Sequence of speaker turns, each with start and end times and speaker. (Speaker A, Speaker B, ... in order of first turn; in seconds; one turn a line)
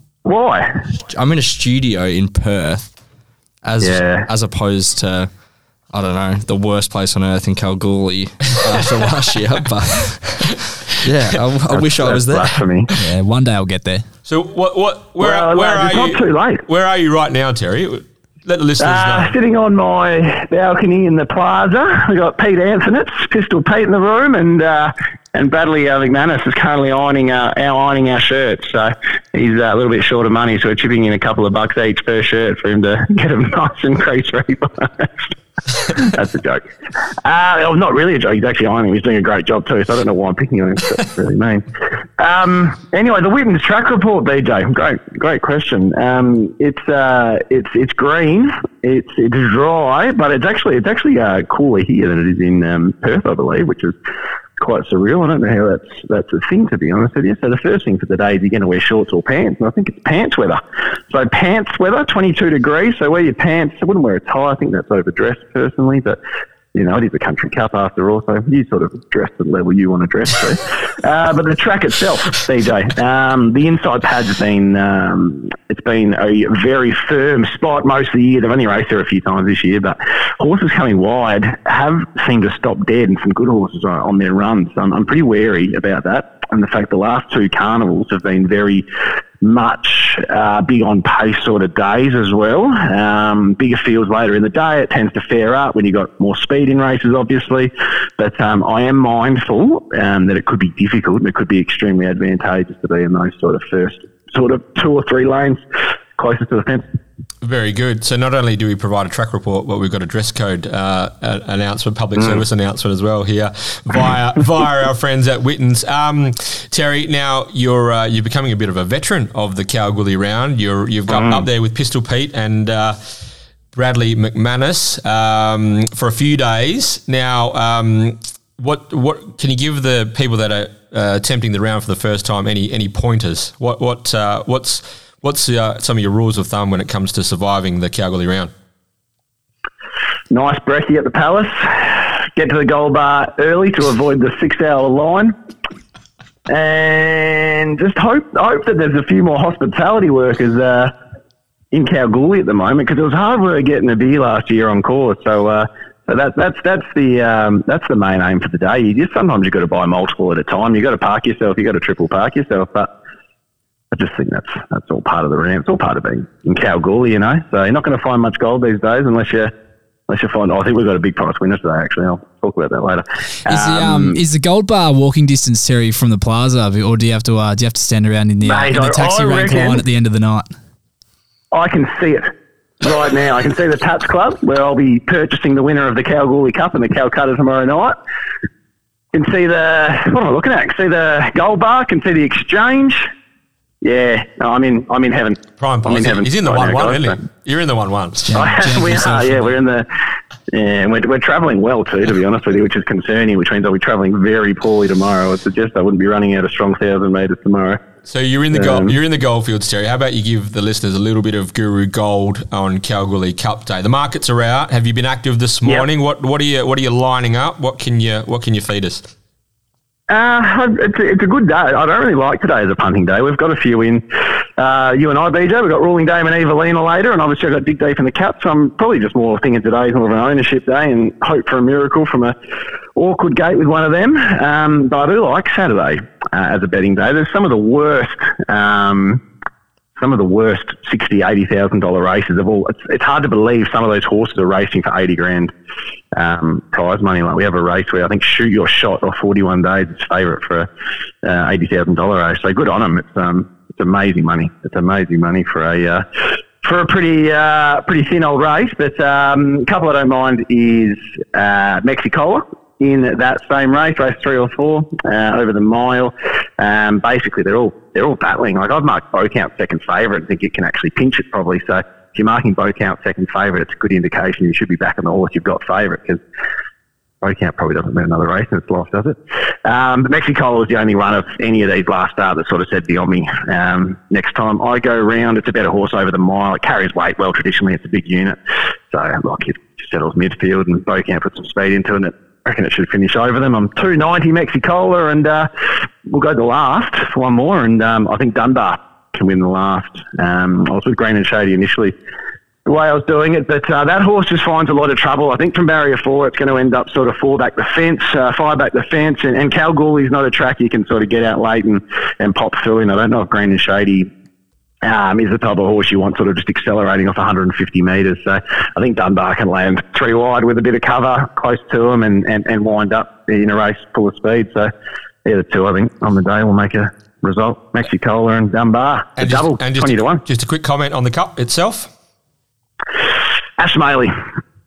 Speaker A: 0.2-0.9
Speaker B: 1.0-2.9
Speaker B: 3.6-5.3
Speaker A: 3.8-4.3
Speaker B: 5.9-12.6
Speaker A: 11.7-12.9
Speaker C: 13.0-14.1
Speaker D: 14.3-19.3
Speaker A: 15.2-16.6
Speaker A: 18.8-36.6
Speaker A: 37.2-41.6
Speaker A: 42.2-54.0
Speaker A: 54.6-66.2
Speaker A: 66.7-88.8
Speaker A: 89.4-105.6
Speaker A: 106.2-106.8
Speaker D: 107.4-123.2
Speaker A: 121.1-121.4
Speaker D: 123.7-138.5
Speaker A: 140.3-145.3
Speaker A: 146.5-150.9
Speaker A: 151.7-162.9
Speaker A: 163.9-169.5
Speaker A: 170.1-174.2
Speaker C: 173.4-180.5
Speaker A: 178.4-179.8
Speaker A: 181.5-188.0
Speaker A: 189.1-193.1
Speaker A: 193.8-197.2
Speaker D: 195.6-198.2
Speaker C: 198.2-199.6
Speaker A: 198.3-199.8
Speaker A: 200.5-207.8
Speaker D: 208.1-219.1
Speaker A: 208.5-208.9
Speaker A: 220.1-224.0
Speaker A: 224.6-232.3
Speaker A: 232.9-239.2
Speaker A: 240.0-245.5
Speaker A: 246.1-250.7
Speaker A: 251.2-256.0
Speaker A: 256.6-276.2
Speaker A: 277.2-288.4
Speaker A: 288.9-295.5
Speaker A: 296.0-301.9
Speaker A: 302.6-314.1
Speaker A: 314.8-324.7
Speaker A: 325.2-330.2
Speaker D: 329.2-331.9
Speaker A: 333.6-334.1